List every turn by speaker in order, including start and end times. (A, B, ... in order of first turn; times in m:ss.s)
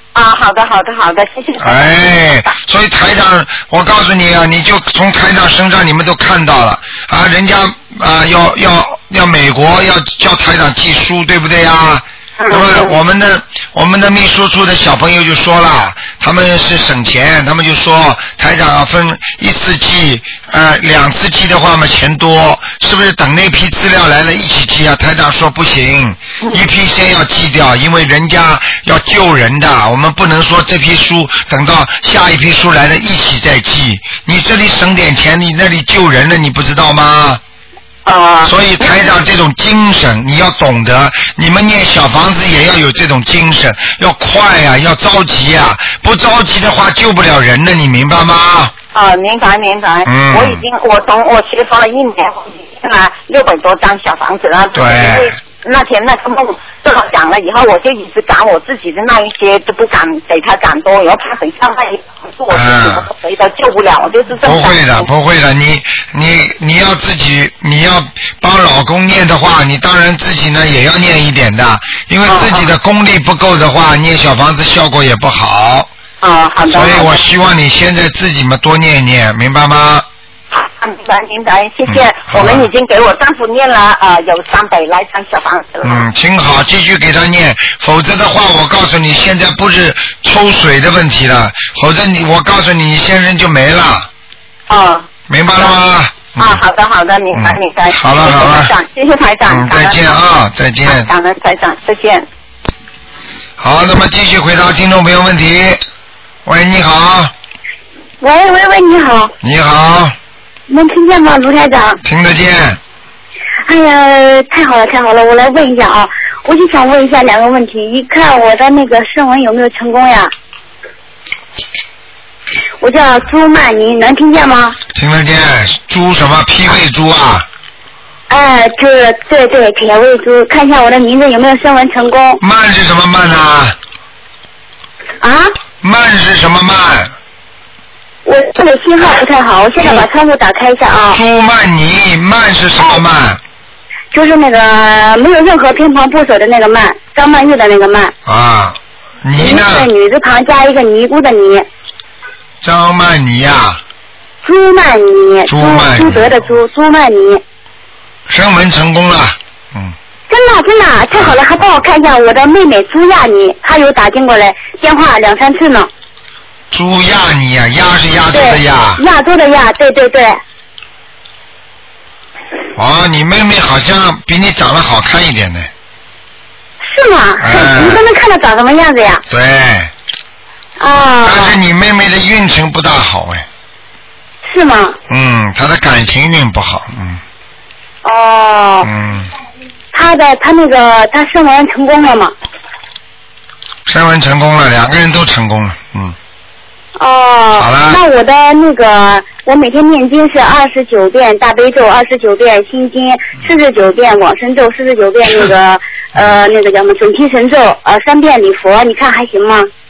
0:00.1-0:01.9 A
0:01.6-0:37.4 B
0:12.4-0:13.0 A
0:38.0-0:39.1 A
0:38.4-0:48.7 B
0:48.9-1:05.1 A
0:50.0-0:50.6 B
0:54.7-0:55.4 B
1:02.5-1:03.1 B
1:04.4-1:15.9 B
1:12.2-1:12.7 A
1:16.2-1:17.3 A
1:16.7-1:20.0 B
1:20.5-1:26.0 A
1:21.9-1:22.7 B
1:25.8-1:34.1 B
1:34.7-1:35.8 A
1:35.3-1:36.6 B
1:36.4-1:40.2 A
1:37.3-1:38.7 B
1:39.5-1:41.1 B
1:40.8-1:42.2 A
1:43.6-1:45.8 B
1:46.4-1:47.3 B
1:48.2-1:49.3 C
1:49.4-1:50.1 B
1:50.7-1:52.0 C
1:52.0-1:52.8 B
1:53.6-2:00.3 C
2:02.8-2:04.8 C
2:04.9-2:07.4 B
2:08.3-2:12.4 C
2:12.4-2:13.8 B
2:15.2-2:15.5 C
2:15.8-2:17.1 B
2:18.2-2:21.2 C
2:21.1-2:23.4 B
2:24.1-2:28.1 C
2:28.2-2:29.9 B
2:29.4-2:31.6 C
2:32.6-2:33.8 B
2:34.4-2:37.4 C
2:35.5-2:36.5 B
2:38.3-2:39.9 B
2:40.3-2:45.9 C
2:41.1-2:41.6 B
2:46.7-2:49.0 B
2:48.3-2:50.4 C
2:52.7-2:55.7 B
2:56.8-2:59.2 C
2:57.4-2:58.0 B
2:59.3-2:59.9 B
3:00.8-3:01.6 C
3:01.2-3:03.4 B
3:04.4-3:05.0 C
3:05.1-3:07.2 B
3:08.0-3:08.9 C
3:08.8-3:09.3 B
3:09.9-3:12.3 C
3:13.8-3:16.2 B
3:17.0-3:29.7 C
3:17.6-3:18.0 B